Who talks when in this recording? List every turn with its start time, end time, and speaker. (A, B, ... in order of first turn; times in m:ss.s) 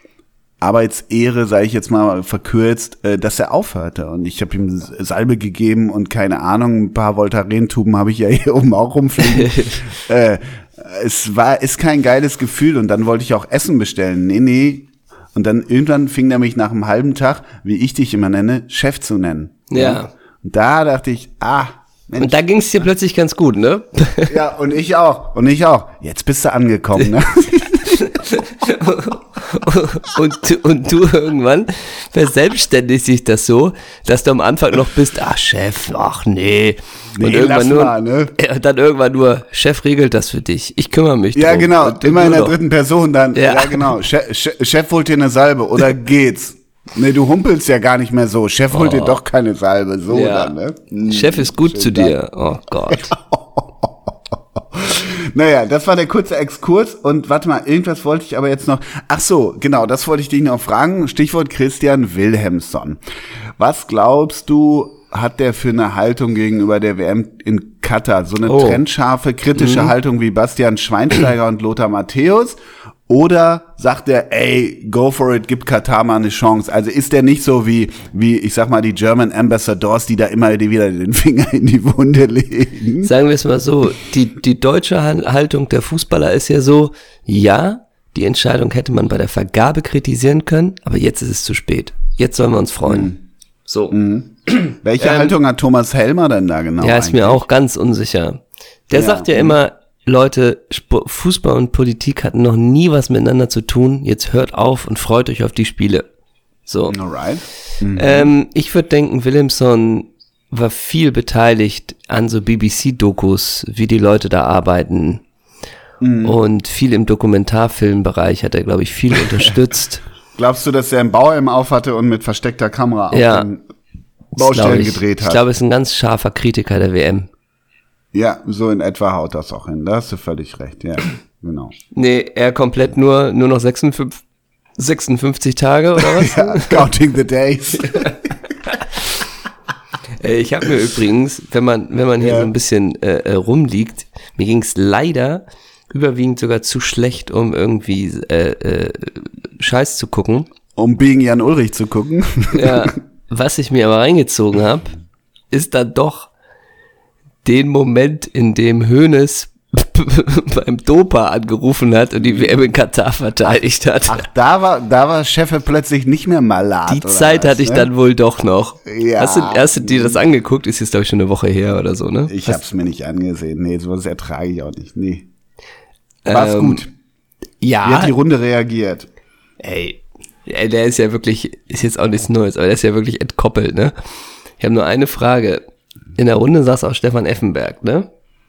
0:00.6-0:22.8 A
0:09.3-0:09.8 B
0:19.7-0:20.1 B
0:22.2-0:24.3 B
0:24.3-0:28.2 A
0:28.0-0:42.6 B
0:37.1-0:38.3 A
0:41.3-0:52.1 A
0:43.3-0:44.0 B
0:48.7-0:49.2 B
0:50.1-0:50.5 B
0:51.1-0:53.1 B
0:52.9-1:03.0 A
1:03.6-1:23.1 A
1:08.4-1:08.8 B
1:09.6-1:09.9 B
1:23.0-1:33.1 B
1:32.8-1:33.2 A
1:33.7-1:35.3 B
1:33.9-1:37.4 A
1:36.8-1:46.1 B
1:38.9-1:39.6 A
1:46.6-1:47.0 B
1:46.9-1:48.3 A
1:47.9-1:55.2 B
1:56.0-1:56.4 A
1:56.2-2:00.0 B
2:00.4-2:03.6 A
2:03.1-2:03.5 B
2:04.4-2:05.4 A
2:04.4-2:07.3 B
2:08.1-2:11.7 A
2:11.9-2:14.2 B
2:14.8-2:16.9 B
2:16.0-2:18.2 A
2:17.8-2:18.8 B
2:20.2-2:30.5 B
2:22.2-2:22.5 A
2:30.8-2:32.9 A
2:32.5-2:34.9 B
2:35.5-2:36.3 B
2:37.4-2:44.3 B
2:44.0-2:47.9 A
2:46.9-2:52.6 B
2:48.8-2:50.2 A
2:52.3-2:55.3 A
2:56.2-2:56.8 B
2:56.3-2:56.9 A
2:57.6-2:58.1 B
2:57.8-2:59.1 A
2:59.6-3:03.9 B
3:04.6-3:05.6 B
3:06.2-3:08.1 B